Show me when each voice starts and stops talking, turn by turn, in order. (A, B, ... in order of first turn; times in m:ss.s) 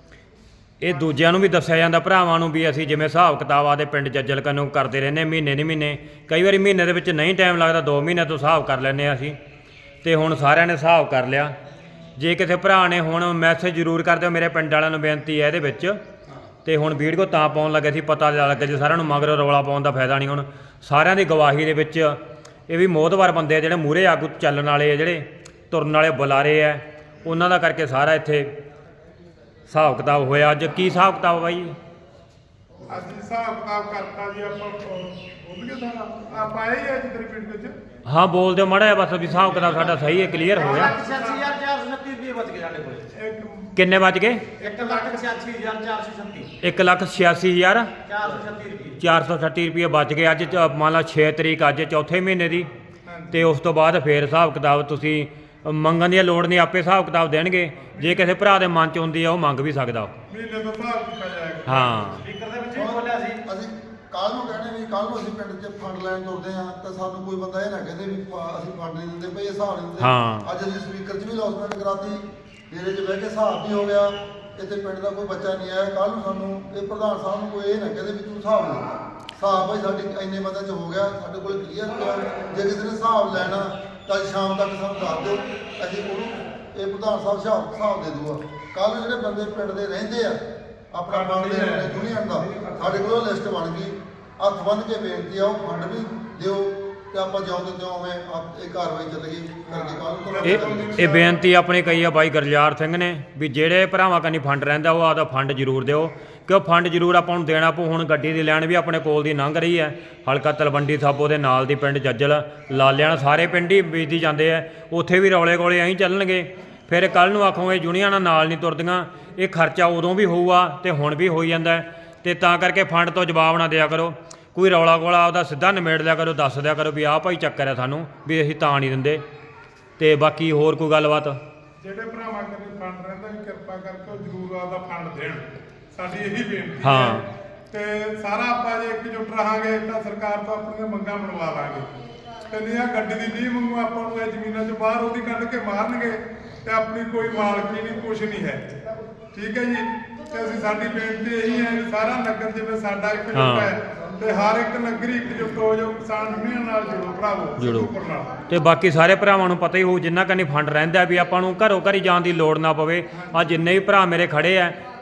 0:00.8-0:09.4 A
0:10.0-0:11.6 A
0:12.2-0:16.0 A
0:16.6-0:22.2 A
0:22.7-0:28.5 A
0:29.7-0:31.8 A
0:32.8-0:37.8 B
0:38.0-0:40.9 A
0:39.7-0:43.1 C
0:40.1-0:41.6 B
0:43.1-0:43.8 B
0:43.7-0:44.5 A
0:44.6-0:46.5 C
0:44.7-0:45.2 B
0:46.6-0:47.9 A
0:48.0-0:49.0 C
0:49.0-0:52.7 A
0:53.0-0:53.5 B
0:53.3-1:00.1 A
0:57.9-0:58.6 B
1:00.3-1:02.2 B
1:01.6-1:02.2 A
1:02.1-1:03.4 C
1:02.7-1:30.4 D
1:10.0-1:10.5 A
1:30.9-1:41.0 D
1:31.1-1:32.8 B
1:39.7-1:41.4 B
1:40.4-2:09.2 A
2:10.0-2:11.4 A
2:11.8-2:21.9 B
2:16.8-2:17.3 A
2:22.4-2:28.8 B
2:29.3-2:38.4 B
2:33.3-2:33.7 A
2:37.6-2:37.9 A
2:38.5-2:44.8 A